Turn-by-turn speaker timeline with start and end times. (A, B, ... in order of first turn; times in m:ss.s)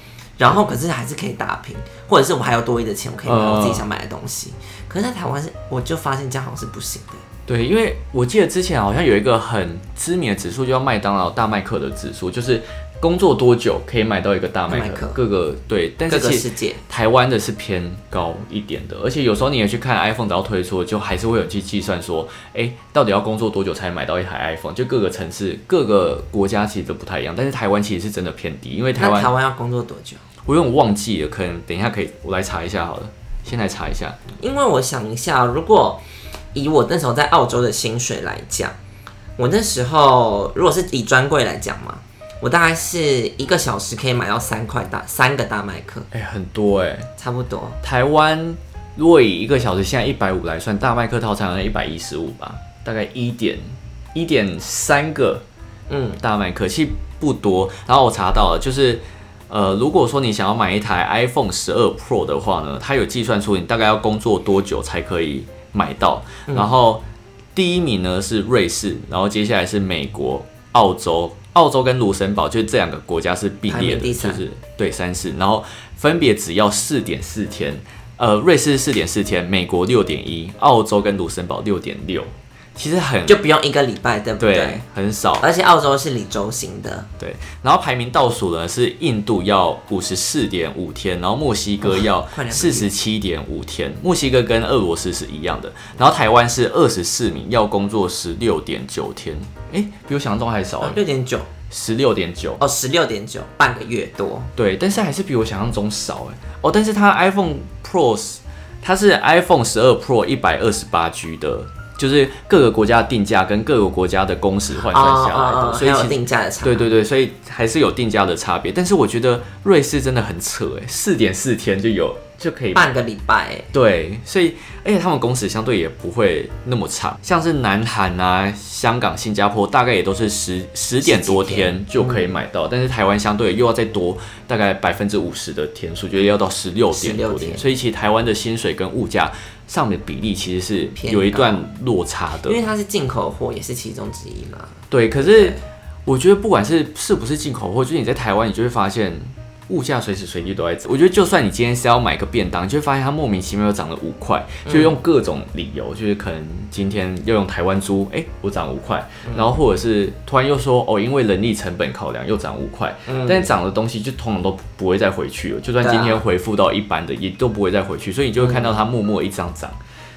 0:00.4-0:07.2 A
0:03.2-0:03.8 B
0:07.5-0:29.3 B
0:14.7-0:15.2 A
0:16.1-0:16.8 A
0:29.0-0:30.2 A
0:30.4-0:34.2 B
0:34.4-0:36.0 A
0:36.5-0:38.8 A
0:39.4-0:46.1 A
0:46.1-0:47.1 B
0:47.2-0:47.8 A
0:47.8-0:55.4 B
0:55.9-0:56.2 A
0:56.2-1:07.0 B
1:06.5-1:06.7 A
1:07.6-1:23.4 B
1:13.7-1:14.4 A
1:23.3-1:24.8 A
1:24.4-1:25.5 B
1:25.4-1:27.1 A
1:27.2-1:41.0 B
1:31.8-1:32.9 A
1:40.8-1:41.5 A
1:41.7-1:42.6 B
1:42.6-1:44.5 A
1:44.6-2:02.9 B
1:54.8-1:56.9 A
2:02.7-2:03.7 A
2:03.7-2:22.6 B
2:11.0-2:12.4 A
2:16.9-2:17.6 A
2:21.0-2:21.6 A
2:22.4-2:25.6 A
2:24.9-2:49.8 B
2:34.6-2:35.0 A
2:39.2-2:39.6 A
2:43.1-2:43.6 A
2:45.8-2:46.2 A
2:48.4-2:48.8 A